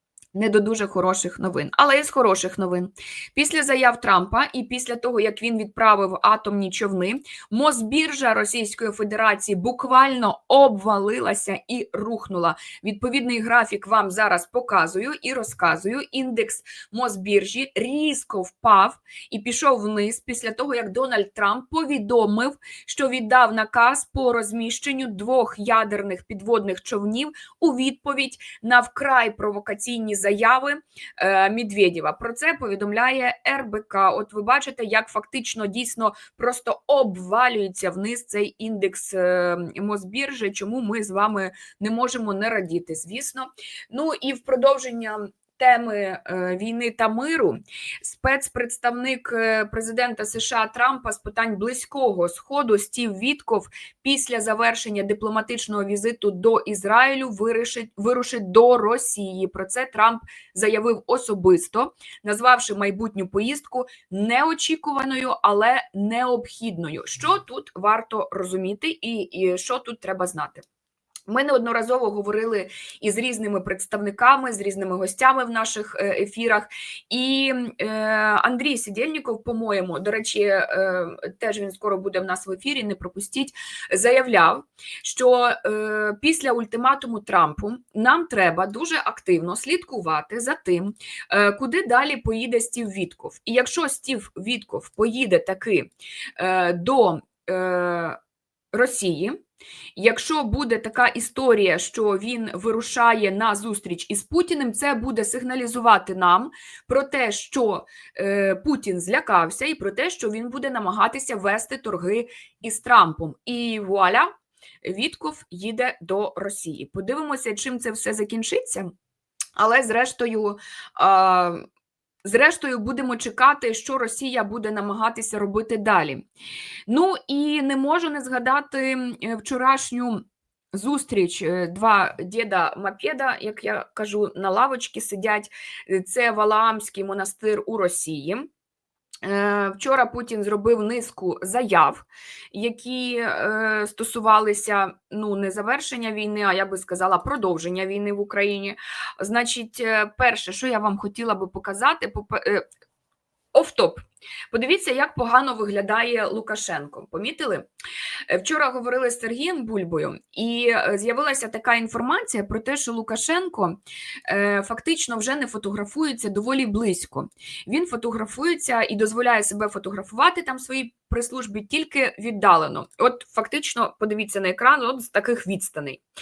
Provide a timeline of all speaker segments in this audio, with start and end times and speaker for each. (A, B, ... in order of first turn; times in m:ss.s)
0:00.3-1:10.6 A
1:11.3-1:38.2 A
1:38.7-1:39.4 A
1:40.0-1:54.3 A
1:54.8-1:58.9 A
1:59.6-2:01.6 A
2:02.2-2:06.2 A
2:06.9-2:18.5 A
2:19.2-2:32.6 A
2:33.5-2:37.7 A
2:38.3-2:56.0 A